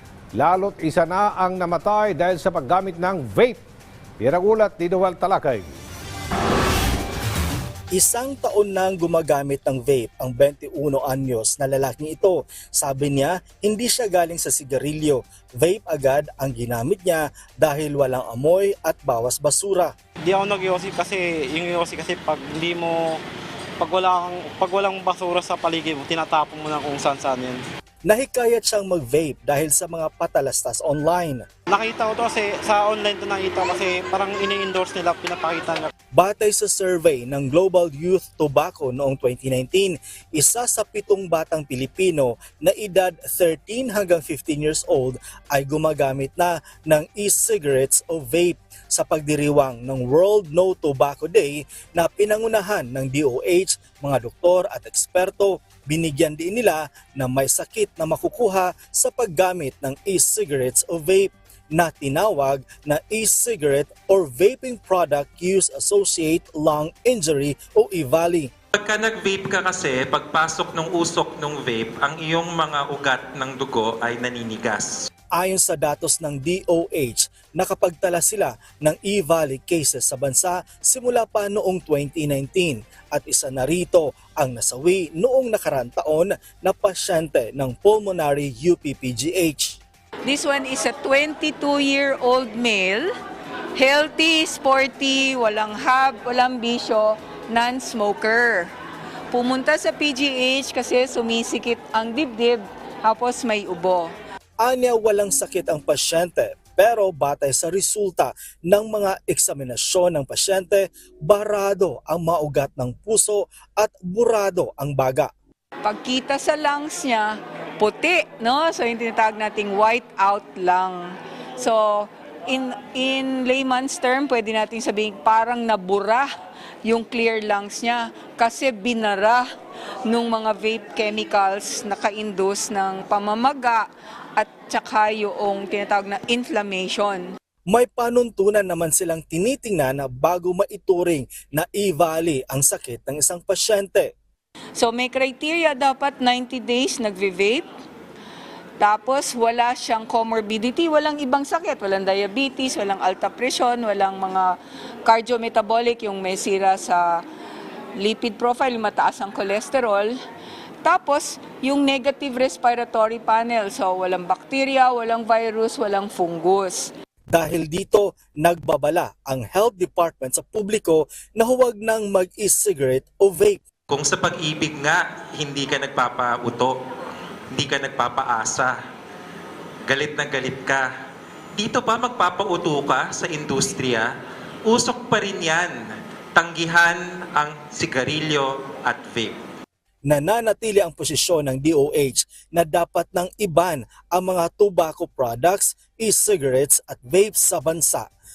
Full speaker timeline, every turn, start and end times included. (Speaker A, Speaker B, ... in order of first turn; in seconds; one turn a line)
Speaker A: 0.3-3.6
Speaker A: 4.2-5.7
Speaker B: 7.9-19.9
Speaker C: 20.2-23.2
Speaker C: 23.8-27.6
Speaker B: 28.0-31.4
Speaker C: 31.7-35.9
Speaker B: 36.1-68.5
Speaker D: 68.7-74.9
Speaker B: 75.3-89.8
Speaker E: 90.2-93.1
Speaker E: 93.8-98.7
Speaker E: 99.3-104.1
Speaker B: 104.6-115.3
Speaker E: 115.8-126.3
Speaker E: 126.8-129.4
Speaker E: 130.1-133.8
Speaker E: 134.4-137.3
Speaker B: 137.7-144.1
Speaker E: 144.8-147.7
Speaker E: 148.8-157.2
Speaker E: 158.0-160.2
Speaker E: 160.8-166.9
Speaker B: 167.3-173.6
Speaker D: 173.9-176.8
Speaker D: 177.5-178.7
Speaker D: 179.9-180.9
Speaker D: 181.6-184.1
Speaker D: 184.7-185.7
Speaker D: 186.3-189.3
Speaker B: 190.1-198.1